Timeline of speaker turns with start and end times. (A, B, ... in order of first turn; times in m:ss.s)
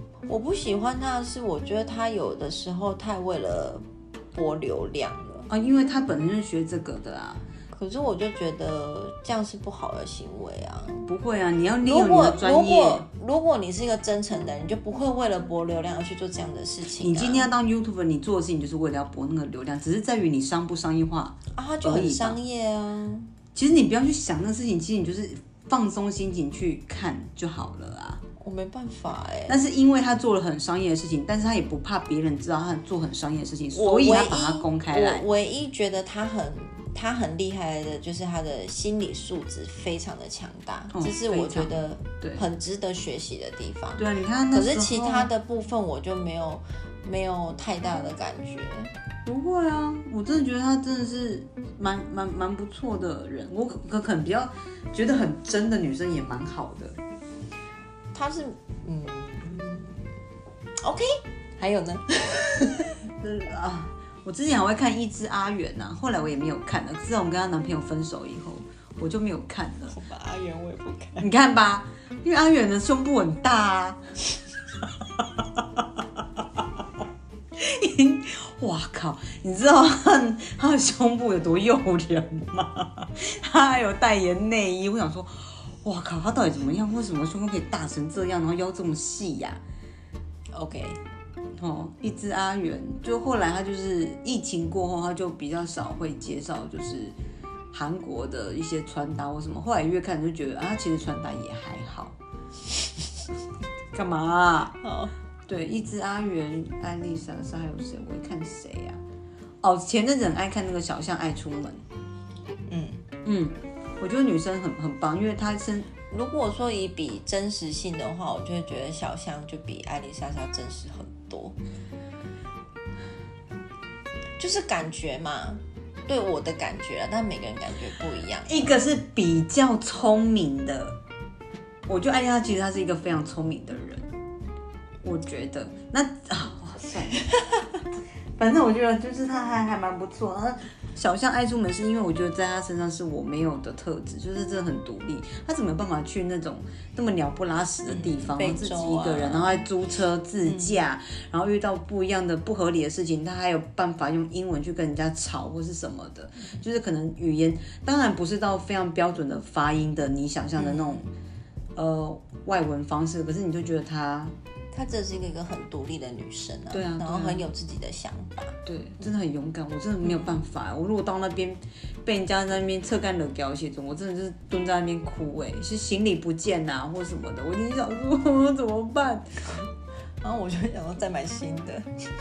0:00.3-0:05.5 A
0:05.5-0:07.4 B
0:07.7-0:11.1 A
0:11.1-0:13.1 B
0:11.8-0:17.5 A
0:17.0-0:22.4 B
0:21.6-0:23.3 A
0:23.6-0:28.2 B
0:28.4-0:29.6 A
0:29.5-0:35.2 B
0:33.7-0:48.9 A
0:40.9-0:42.4 B
0:44.0-0:45.3 B
0:49.3-0:57.0 B
0:58.1-1:00.0 A
1:00.8-1:02.9 A
1:03.2-1:10.0 B
1:09.9-1:11.3 A
1:11.2-1:14.0 B
1:15.2-1:16.6 B
1:17.6-1:29.6 B
1:30.5-1:31.0 A
1:31.6-1:37.2 B
1:37.7-1:42.2 B
1:43.9-1:44.8 B
1:44.8-1:45.1 A
1:45.5-1:49.0 B
1:49.6-1:51.8 B
1:52.7-1:53.0 A
1:53.2-1:55.9 B
1:56.1-2:01.6 A
2:04.4-2:08.8 A
2:08.5-2:11.0 B
2:11.9-2:14.1 B
2:15.0-2:17.5 B
2:18.4-2:41.1 B
2:27.9-2:29.6 A
2:30.4-2:30.8 A
2:40.6-2:41.0 A
2:41.8-2:44.3 B
2:44.7-2:48.6 A
2:46.7-2:47.4 B
2:48.7-2:59.3 B
3:00.2-3:01.9 A